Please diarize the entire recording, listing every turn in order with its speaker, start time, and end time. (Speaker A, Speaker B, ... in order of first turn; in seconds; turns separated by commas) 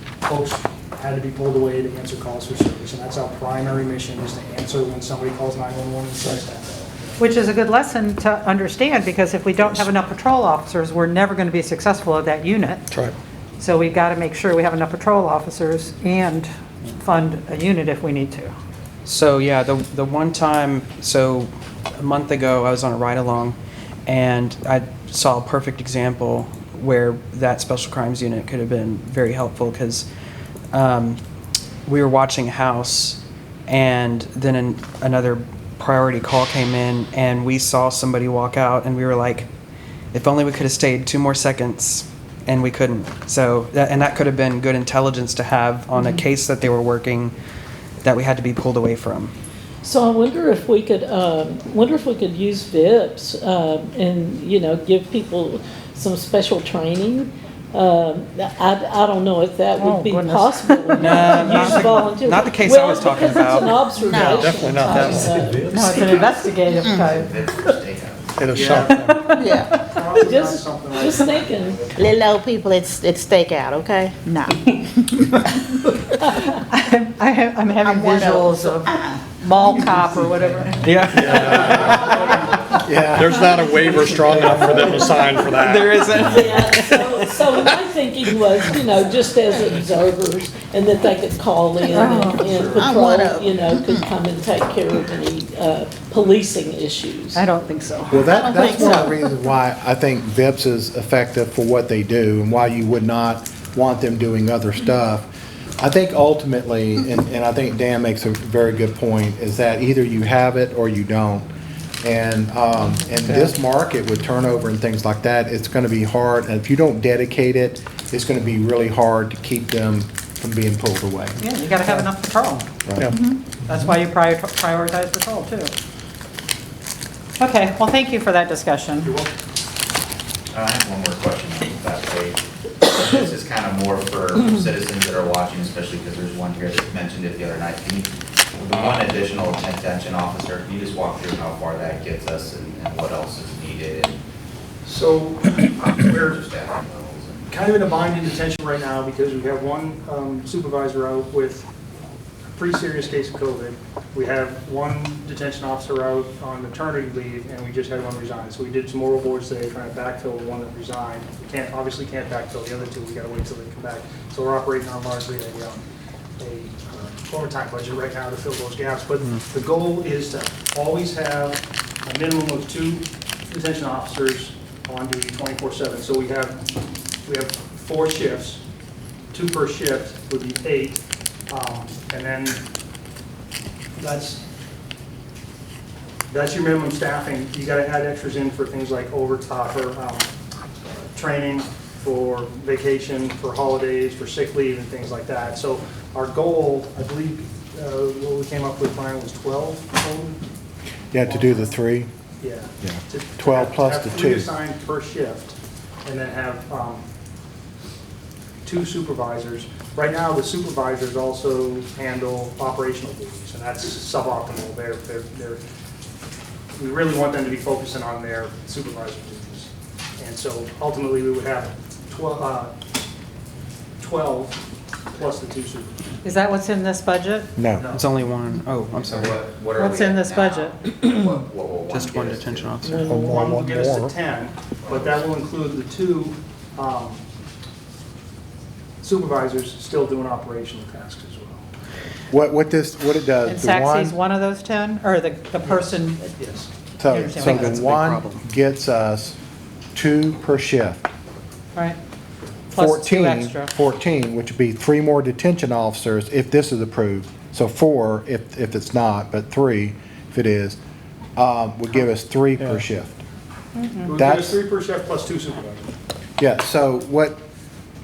Speaker A: 0.2-7.2, Speaker B: 7.2-12.9, Speaker B: 13.6-18.5, Speaker C: 19.1-30.1, Speaker C: 30.7-31.2, Speaker C: 31.9-39.5, Speaker C: 40.1-47.3, Speaker C: 48.0-49.3, Speaker D: 49.8-65.8, Speaker B: 59.8-62.0, Speaker C: 61.0-63.8, Speaker E: 63.9-65.3, Speaker F: 64.2-65.9, Speaker B: 65.7-67.7, Speaker A: 65.7-66.5, Speaker E: 66.7-67.0, Speaker G: 66.9-68.3, Speaker F: 68.4-69.3, Speaker A: 68.5-72.1, Speaker B: 68.7-69.8, Speaker E: 69.4-69.7, Speaker D: 70.1-71.9, Speaker E: 72.0-75.3, Speaker B: 76.5-82.1, Speaker E: 77.8-80.2, Speaker C: 80.8-82.0, Speaker F: 81.1-82.4, Speaker E: 82.1-82.4, Speaker H: 82.8-83.5, Speaker F: 83.0-86.2, Speaker C: 83.9-87.8, Speaker D: 86.2-97.5, Speaker E: 89.1-89.7, Speaker B: 91.8-92.6, Speaker E: 92.6-94.1, Speaker B: 97.3-99.2, Speaker H: 98.1-105.3, Speaker E: 98.6-99.0, Speaker H: 105.8-111.5, Speaker H: 112.0-121.4, Speaker B: 121.4-125.7, Speaker B: 127.4-129.1, Speaker A: 129.0-129.3, Speaker G: 130.5-144.2, Speaker A: 144.8-146.4, Speaker G: 146.0-147.4, Speaker A: 147.5-151.7, Speaker A: 152.5-165.8, Speaker A: 166.4-176.6, Speaker A: 177.2-178.6, Speaker A: 179.3-182.6, Speaker A: 184.0-184.4, Speaker A: 186.3-190.3, Speaker A: 191.0-200.4, Speaker H: 201.1-202.1, Speaker A: 201.2-201.8, Speaker A: 202.4-207.1, Speaker H: 202.8-204.5, Speaker A: 208.6-215.6, Speaker A: 216.8-222.8, Speaker A: 224.0-224.6, Speaker A: 225.1-226.0, Speaker B: 226.2-227.5, Speaker H: 227.6-227.8, Speaker A: 227.7-228.0, Speaker C: 227.9-229.4, Speaker G: 228.9-232.8, Speaker B: 229.7-230.9, Speaker C: 231.9-233.0, Speaker D: 232.8-233.4, Speaker F: 233.1-234.1, Speaker A: 233.1-237.2, Speaker G: 234.8-235.2, Speaker A: 239.0-241.6, Speaker H: 242.3-244.2, Speaker B: 243.4-246.3, Speaker A: 245.6-246.7, Speaker H: 247.0-249.4, Speaker B: 247.1-247.7, Speaker C: 247.4-248.4, Speaker H: 249.9-251.0, Speaker B: 252.7-253.7, Speaker H: 252.7-260.8, Speaker H: 261.4-263.2, Speaker B: 263.7-264.1, Speaker A: 264.0-265.9, Speaker H: 264.1-264.6, Speaker H: 266.4-267.4